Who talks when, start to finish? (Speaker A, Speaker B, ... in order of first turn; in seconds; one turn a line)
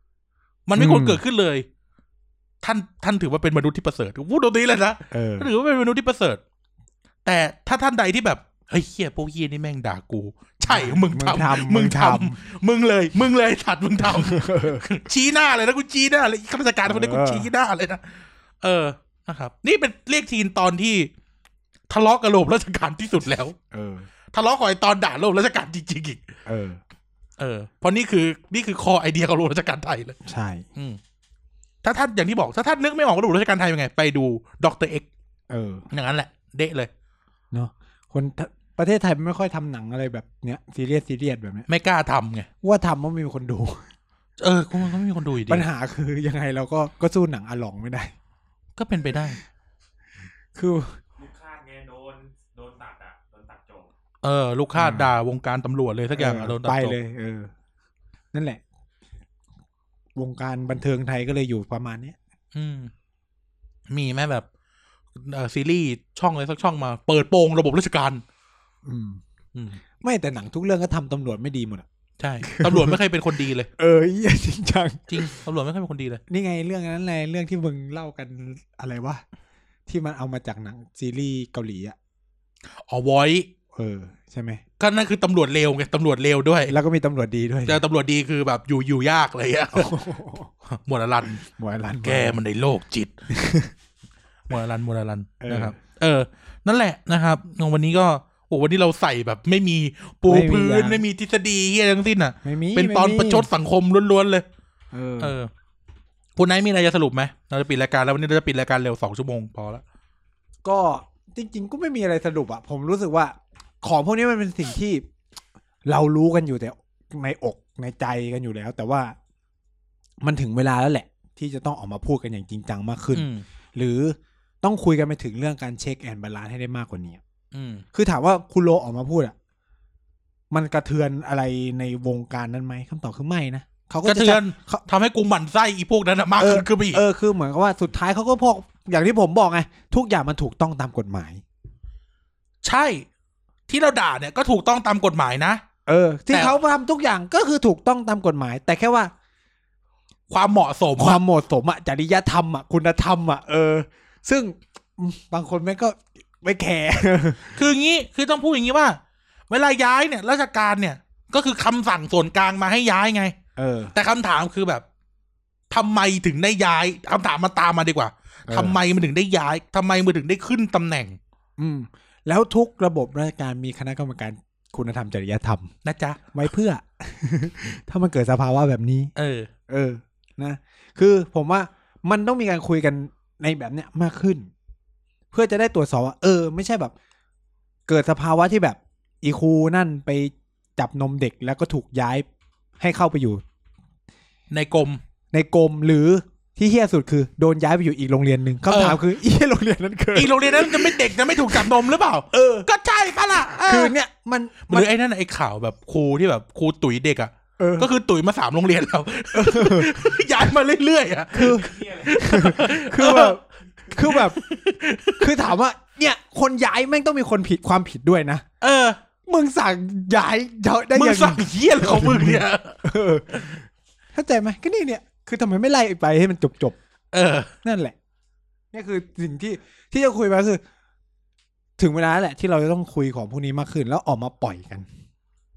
Speaker A: 0.7-1.7
Speaker B: 0.8-1.2
Speaker A: 2.6-6.4
Speaker B: 5.1-5.5
Speaker A: 7.2-21.1
Speaker B: 10.7-12.4
Speaker B: 14.0-14.8
Speaker B: 16.9-17.5
Speaker A: 21.9-23.6
Speaker B: 23.7-24.1
Speaker A: 24.3-26.3
Speaker B: 26.5-26.8
Speaker A: 27.4-30.2
Speaker B: 30.2-30.7
Speaker A: 30.8-31.0
Speaker A: 31.8-35.1
Speaker B: 35.5-35.9
Speaker A: 35.9-36.9
Speaker B: 37.5-41.7
Speaker A: 41.7-42.5
Speaker B: 42.6-43.9
Speaker A: 44.4-45.7
Speaker B: 45.5-48.1
Speaker A: 48.8-49.4
Speaker B: 50.5-51.0
Speaker C: 51.2-53.9
Speaker A: 54.2-57.0
Speaker B: 54.8-55.1
Speaker B: 56.1-57.5
Speaker B: 58.3-58.6
Speaker B: 60.2-62.2
Speaker A: 62.5-62.9
Speaker A: 63.9-64.5
Speaker A: 65.2-68.2
Speaker B: 68.8-69.2
Speaker A: 69.5-69.8
Speaker B: 70.0-71.9
Speaker A: 72.2-73.7
Speaker B: 72.4-73.0
Speaker B: 73.8-75.3
Speaker A: 75.1-76.2
Speaker B: 76.3-79.2
Speaker B: 79.9-82.0
Speaker A: 82.9-83.5
Speaker B: 83.7-84.6
Speaker A: 84.8-86.8
Speaker B: 86.7-87.8
Speaker A: 87.7-89.9
Speaker B: 89.7-90.5
Speaker A: 90.7-91.4
Speaker B: 91.5-92.4
Speaker A: 92.0-93.2
Speaker B: 93.3-93.7
Speaker A: 94.5-104.5
Speaker B: 95.4-95.8
Speaker B: 100.3-101.0
Speaker B: 102.4-103.5
Speaker B: 104.9-105.3
Speaker A: 105.2-105.5
Speaker A: 106.4-109.8
Speaker B: 110.6-115.1
Speaker B: 115.9-119.2
Speaker B: 120.2-127.2
Speaker A: 123.1-123.5
Speaker A: 127.5-127.8
Speaker B: 127.9-129.3
Speaker B: 130.5-134.8
Speaker A: 134.1-137.0
Speaker B: 136.4-141.4
Speaker A: 142.6-143.1
Speaker A: 143.7-145.6
Speaker B: 145.9-149.1
Speaker A: 146.3-146.6
Speaker A: 150.3-151.2
Speaker B: 151.0-157.6
Speaker A: 157.5-163.4
Speaker B: 163.6-163.9
Speaker A: 163.9-164.8
Speaker A: 165.7-171.2
Speaker B: 168.5-168.8
Speaker B: 171.6-175.7
Speaker A: 175.8-176.2
Speaker B: 176.3-179.1
Speaker A: 179.2-179.5
Speaker B: 179.7-184.5
Speaker B: 185.3-186.9
Speaker B: 187.9-192.3
Speaker B: 192.8-193.4
Speaker A: 194.5-195.0
Speaker B: 195.3-201.8
Speaker A: 198.7-199.0
Speaker A: 200.1-203.9
Speaker B: 202.3-202.7
Speaker B: 203.7-204.9
Speaker A: 204.7-213.4
Speaker B: 207.6-207.9
Speaker B: 209.3-209.9
Speaker B: 211.3-214.4
Speaker A: 213.9-215.4
Speaker B: 215.2-218.4
Speaker A: 218.6-219.0
Speaker B: 219.3-226.8
Speaker A: 220.9-222.8
Speaker A: 227.1-227.5
Speaker B: 227.6-227.9
Speaker B: 228.7-230.6
Speaker B: 231.8-234.9